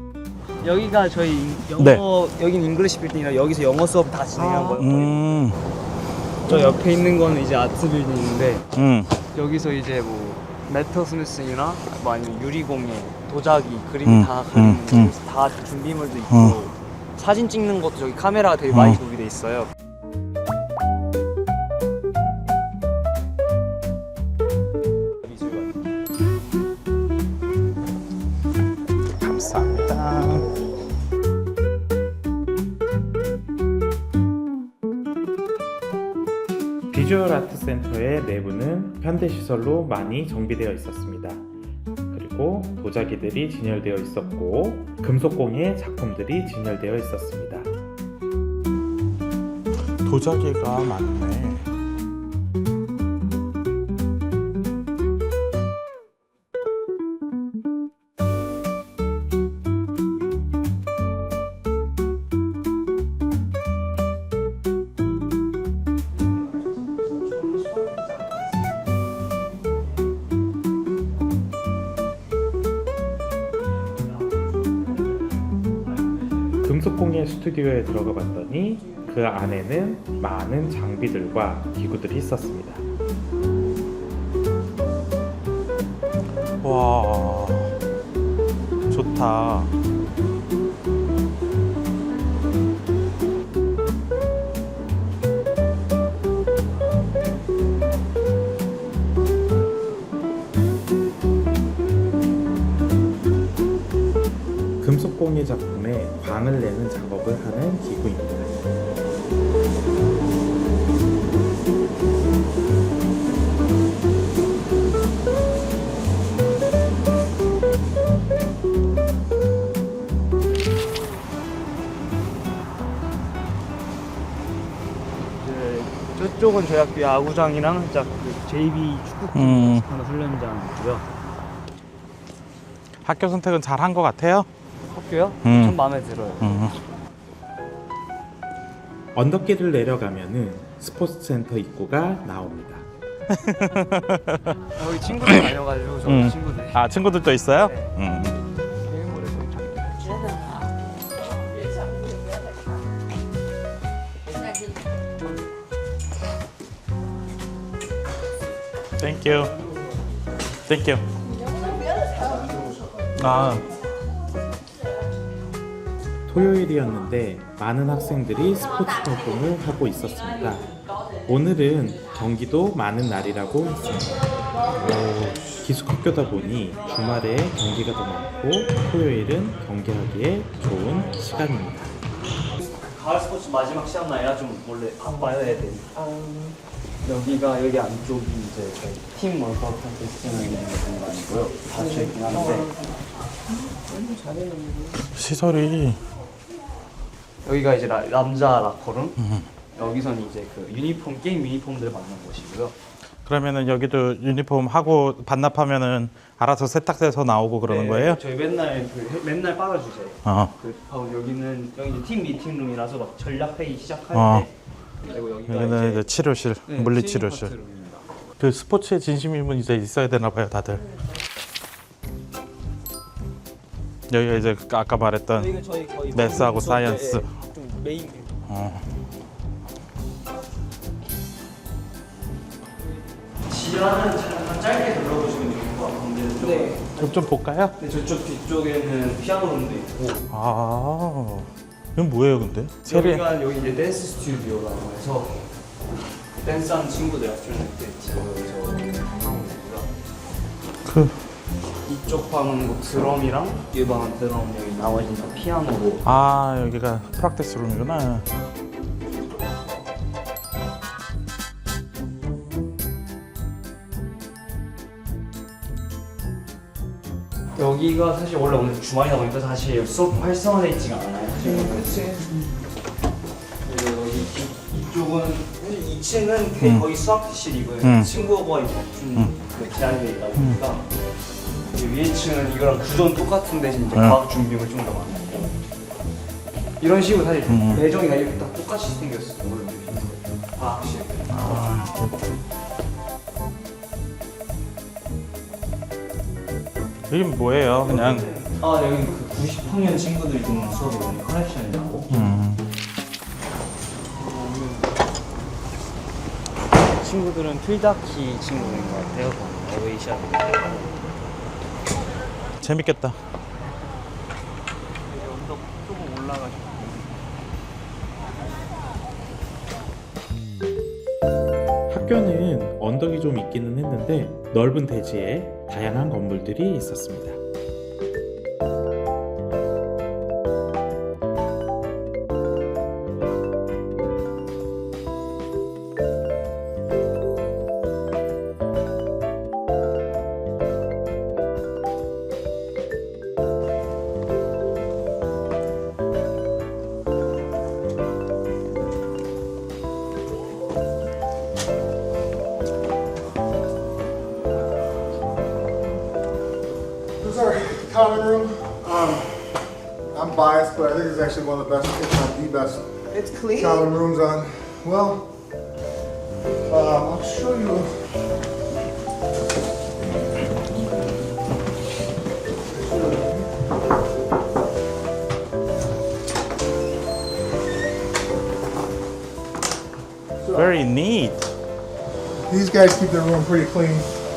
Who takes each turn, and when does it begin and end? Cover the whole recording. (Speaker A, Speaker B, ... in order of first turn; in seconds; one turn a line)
Speaker A: 0.6-5.3
Speaker B: 1.8-2.0
Speaker B: 4.7-5.6
Speaker A: 6.4-8.7
Speaker B: 8.7-9.1
Speaker A: 9.3-19.7
Speaker B: 14.1-15.1
Speaker B: 16.3-16.6
Speaker B: 18.7-19.0
Speaker A: 25.3-25.8
Speaker B: 29.2-30.5
Speaker C: 36.9-41.5
Speaker C: 42.1-47.7
Speaker B: 50.0-51.6
Speaker A: 66.5-68.5
Speaker C: 76.6-82.8
Speaker B: 86.6-87.7
Speaker B: 88.9-89.7
Speaker C: 104.8-108.5
Speaker A: 125.4-131.1
Speaker B: 129.3-129.8
Speaker B: 133.0-134.5
Speaker A: 134.9-136.7
Speaker B: 135.4-135.8
Speaker B: 136.4-136.7
Speaker C: 139.1-142.8
Speaker B: 143.3-144.6
Speaker A: 144.8-146.8
Speaker B: 145.1-145.5
Speaker B: 146.1-148.3
Speaker A: 147.6-147.9
Speaker A: 148.9-149.6
Speaker D: 149.0-150.6
Speaker B: 159.0-159.5
Speaker B: 160.7-161.0
Speaker B: 163.2-163.6
Speaker C: 166.2-170.7
Speaker C: 171.2-174.2
Speaker C: 174.7-181.9
Speaker A: 182.6-185.9
Speaker D: 185.9-186.6
Speaker A: 187.0-192.7
Speaker D: 193.7-195.0
Speaker B: 195.1-196.0
Speaker A: 197.4-199.2
Speaker B: 199.2-199.5
Speaker A: 199.7-202.7
Speaker B: 203.2-208.2
Speaker A: 207.6-214.5
Speaker B: 210.2-210.5
Speaker B: 214.1-214.5
Speaker A: 215.0-216.1
Speaker B: 215.5-217.5
Speaker A: 216.7-218.0
Speaker B: 218.4-220.8
Speaker B: 224.1-225.5
Speaker A: 225.3-228.3
Speaker B: 226.1-227.3
Speaker B: 228.5-228.8
Speaker A: 233.5-240.2
Speaker B: 237.0-237.8
Speaker B: 240.3-243.2
Speaker A: 242.8-245.4
Speaker A: 246.4-249.9
Speaker B: 250.8-251.2
Speaker A: 251.8-256.1
Speaker B: 256.0-258.2
Speaker A: 267.6-272.2
Speaker A: 273.6-280.8
Speaker B: 277.8-278.1
Speaker A: 281.7-285.6
Speaker A: 286.8-291.6
Speaker B: 287.5-287.8
Speaker B: 291.3-292.1
Speaker B: 297.1-298.3
Speaker A: 297.8-302.2
Speaker B: 302.1-302.6
Speaker A: 304.2-304.9
Speaker A: 307.0-311.0
Speaker B: 312.6-313.2
Speaker A: 315.1-317.1
Speaker C: 321.9-327.4
Speaker E: 357.2-359.4
Speaker E: 360.1-363.0
Speaker D: 363.1-363.8
Speaker E: 363.5-365.3
Speaker E: 366.7-368.1
Speaker B: 380.5-381.5
Speaker E: 382.5-384.1